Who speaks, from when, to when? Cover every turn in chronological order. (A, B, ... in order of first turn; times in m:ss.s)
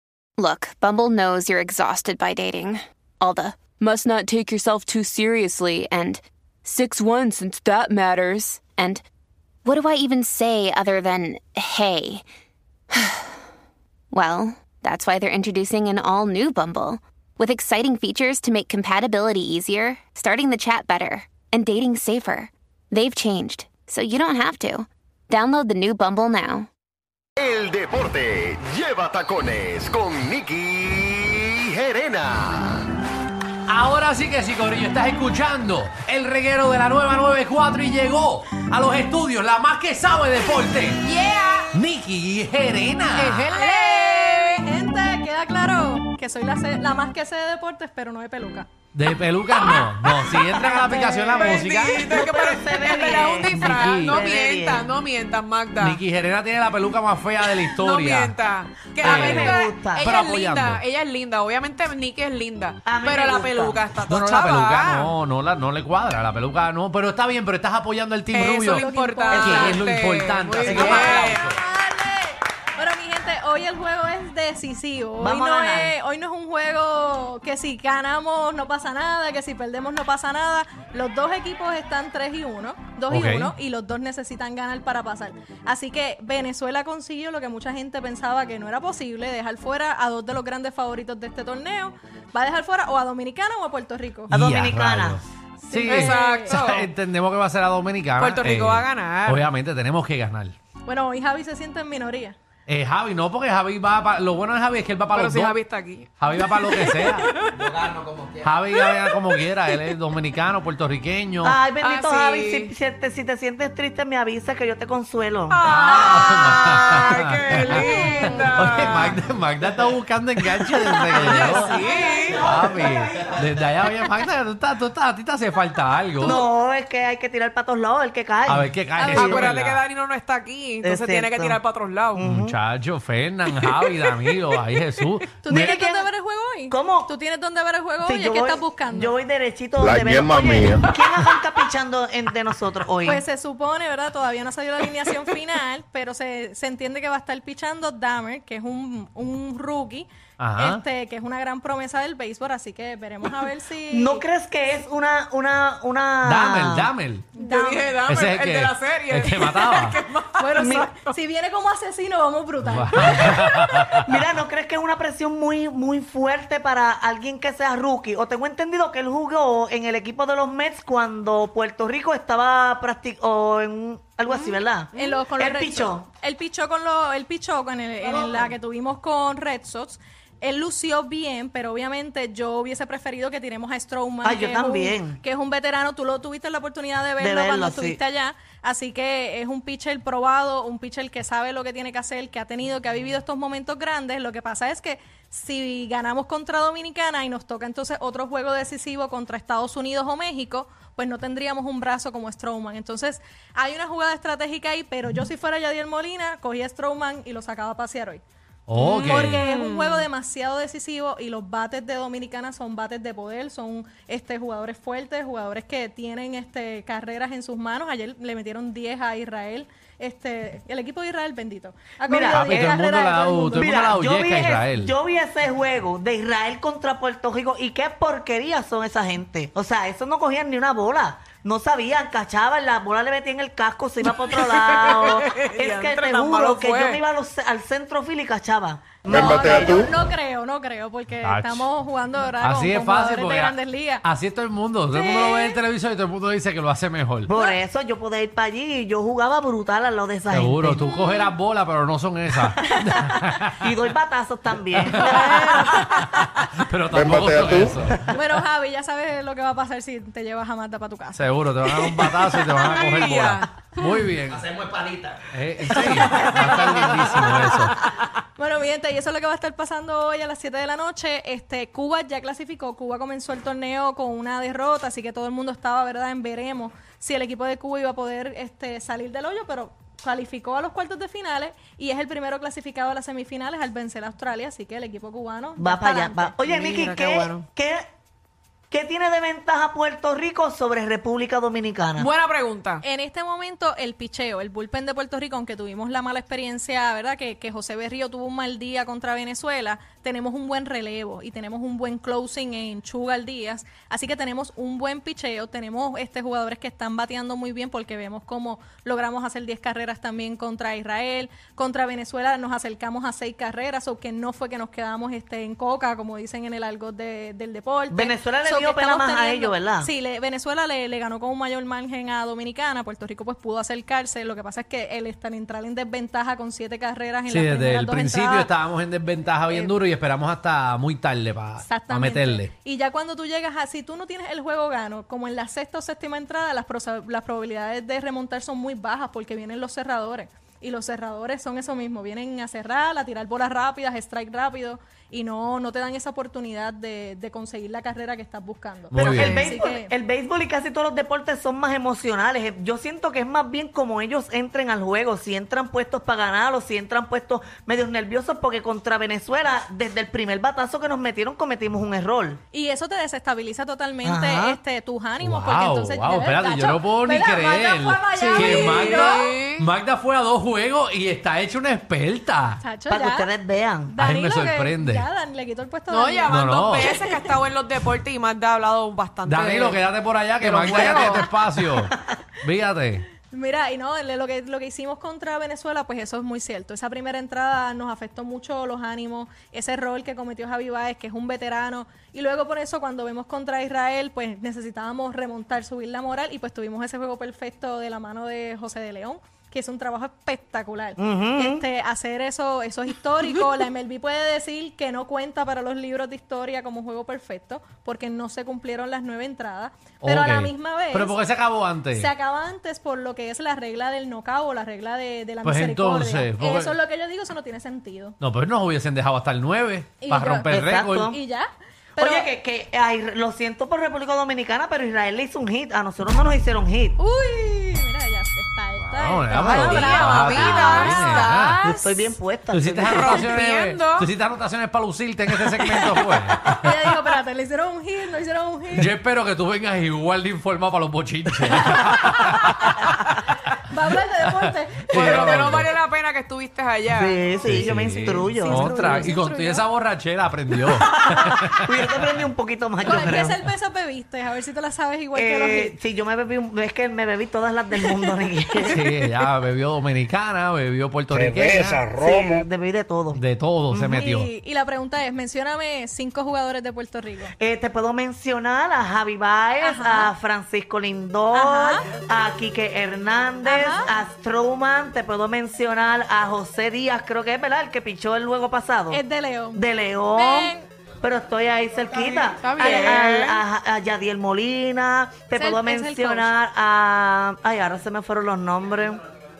0:00.4-0:09.0 A
0:09.6-0:12.2 A
0:13.0-0:13.3 A
0:14.1-0:26.7 A
0:27.4-0:32.8 B
0:33.7-0:41.0 C
0:41.0-0:41.8 D
0:41.7-0:43.6 C
0:43.1-0:44.7 D
0:43.5-0:48.7 E
0:48.9-0:52.1 C
0:49.5-0:56.0 D
0:51.5-0:54.9 F
0:53.4-0:54.3 C
0:55.8-0:58.4 C
0:57.4-1:05.1 D
0:59.0-1:00.8 C
0:59.0-1:00.1 F
1:02.8-1:03.8 F
1:04.1-1:11.6 C
1:08.3-1:11.5 D
1:08.7-1:09.8 E
1:10.6-1:34.3 E
1:10.7-1:11.1 F
1:15.2-1:15.9 F
1:23.1-1:23.5 C
1:34.3-1:40.6 C
1:34.3-1:35.2 F
1:35.6-1:36.6 E
1:35.9-1:36.9 D
1:38.2-1:39.5 D
1:40.9-1:42.4 E
1:42.7-1:45.6 C
1:45.1-1:49.9 D
1:46.2-1:47.3 C
1:48.4-1:51.6 C
1:51.4-1:55.6 F
1:51.8-1:52.7 D
1:55.5-1:59.2 D
1:55.6-2:01.8 C
2:00.6-2:02.6 D
2:02.3-2:06.4 C
2:06.2-2:09.6 F
2:08.5-2:09.8 C
2:09.0-2:09.4 E
2:09.2-2:12.2 D
2:10.8-2:11.6 F
2:12.2-2:12.6 F
2:12.2-2:15.7 C
2:13.7-2:14.3 D
2:15.4-2:19.2 E
2:15.5-2:16.1 F
2:16.7-2:17.1 F
2:18.0-2:23.2 F
2:19.8-2:20.9 B
2:23.1-2:34.3 E
2:30.4-2:30.8 C
2:33.9-2:36.9 F
2:36.2-2:37.4 C
2:37.4-2:38.0 E
2:37.4-2:41.2 D
2:38.1-2:40.0 C
2:40.4-2:44.0 E
2:40.6-2:40.9 F
2:42.6-2:44.0 C
2:43.3-2:56.0 F
2:54.3-2:55.1 D
2:54.9-3:28.2 E
2:58.1-2:58.5 F
3:04.2-3:05.2 F
3:07.2-3:08.0 F
3:28.7-3:29.5 C
3:28.8-3:30.1 D
3:28.9-3:43.8 E
3:42.0-3:42.8 F
3:42.3-3:44.9 C
3:43.5-3:59.8 F
3:54.2-3:57.0 D
3:59.1-3:59.9 B
3:59.1-4:04.0 E
4:01.2-4:01.7 C
4:02.4-4:07.3 C
4:04.9-4:05.6 E
4:07.3-4:10.9 F
4:07.3-4:07.6 E
4:10.3-4:13.6 C
4:13.6-4:15.3 F
4:14.8-4:18.1 C
4:15.0-4:16.0 E
4:16.9-4:17.8 B
4:18.1-4:21.3 E
4:21.1-4:24.6 C
4:22.3-4:23.5 D
4:24.6-4:25.1 D
4:25.3-4:27.8 C
4:25.8-4:26.7 D
4:26.1-4:26.4 E
4:28.4-4:46.4 E
4:45.6-4:47.8 F
4:46.4-4:47.5 D
4:48.7-4:52.1 F
4:52.0-4:52.8 D
4:52.8-5:28.5 E
5:17.9-5:19.9 F
5:27.3-5:32.5 C
5:31.6-5:49.9 E
5:48.9-5:49.5 C
5:49.0-6:02.4 F
6:02.5-6:09.3 E
6:04.0-6:04.6 F
6:05.2-6:12.6 C
6:08.1-6:09.7 D
6:12.6-6:13.3 E
6:12.9-6:14.0 F
6:13.9-6:17.3 E
6:14.0-6:15.1 C
6:15.9-6:19.8 D
6:16.3-6:17.0 C
6:19.3-6:23.1 C
6:20.4-6:21.3 D
6:20.9-6:21.3 E
6:23.2-6:51.2 E
6:41.0-6:41.6 F
6:50.0-6:52.1 C
6:51.9-6:58.2 E
6:55.4-6:56.8 C
6:58.2-7:01.1 C
7:00.0-7:02.3 E
7:00.5-7:01.2 F
7:02.0-7:07.0 F
7:07.0-7:11.4 E
7:08.8-7:11.6 C
7:09.4-7:12.2 D
7:11.6-7:13.3 F
7:12.5-7:16.9 C
7:12.9-7:14.1 D
7:16.5-7:18.9 E
7:18.7-7:23.0 C
7:21.7-7:23.0 E
7:23.6-7:25.6 E
7:24.3-7:25.7 C
7:24.9-7:27.2 D
7:26.9-7:29.1 F
7:27.4-7:32.2 C
7:28.2-7:29.6 E
7:30.7-7:33.4 F
7:32.8-7:35.8 E
7:35.2-7:38.8 F
7:37.9-7:38.9 E
7:38.7-7:41.9 C
7:41.2-7:42.4 B
7:41.9-7:44.0 F
7:43.1-7:44.3 C
7:44.0-7:47.3 E
7:47.4-7:59.0 F
7:49.6-7:50.1 E
7:51.3-7:51.9 E
7:53.4-7:53.9 E
7:58.9-8:00.7 E
7:59.6-8:09.0 F
8:02.4-8:03.4 D
8:05.4-8:06.3 E